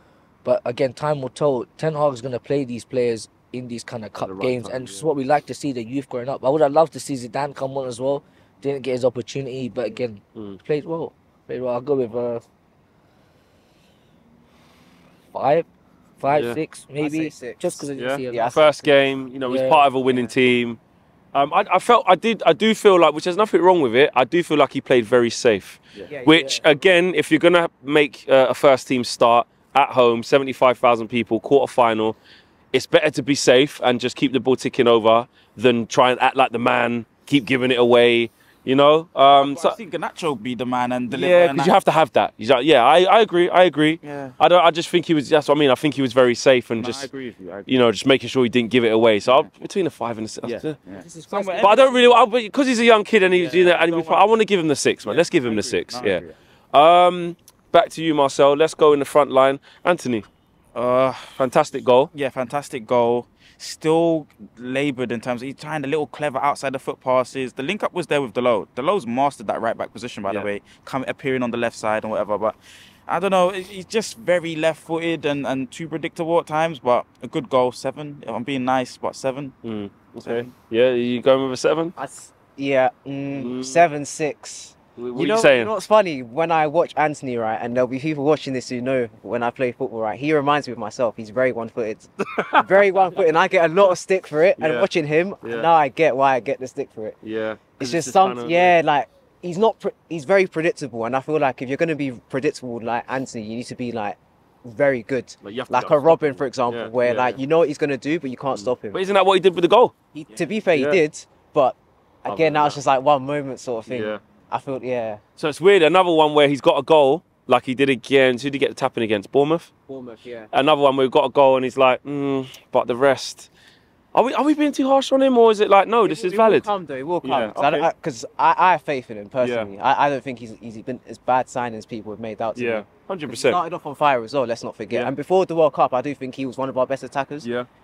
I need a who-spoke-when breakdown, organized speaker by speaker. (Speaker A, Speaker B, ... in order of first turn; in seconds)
Speaker A: 0.4-12.4, 15.3-15.7, 16.2-18.6, 19.5-20.3, 26.3-26.6, 51.0-52.1
Speaker B: 4.2-5.1, 16.3-16.6, 18.0-20.8, 21.3-32.2, 32.7-39.8, 41.1-47.1, 47.7-50.8, 51.6-60.3, 61.4-62.1, 79.6-81.9, 83.3-83.9, 85.0-85.7, 92.2-93.1, 94.6-94.9, 95.4-95.7, 97.2-98.8, 105.4-107.4, 108.5-109.9, 110.7-111.0, 112.3-112.8, 113.9-114.2, 115.4-119.7, 120.5-123.5, 124.1-126.7, 127.2-127.9, 129.4-129.7, 132.6-133.6, 137.4-137.7
Speaker C: 17.0-19.0, 26.1-26.5, 82.0-97.2, 97.8-109.0, 110.2-115.2, 119.9-120.5, 126.0-137.5
Speaker D: 39.3-41.8, 44.0-44.4, 46.8-47.8, 49.2-49.5, 50.4-51.9, 53.3-54.3, 55.0-56.4, 60.8-61.5, 62.1-79.6, 80.2-80.5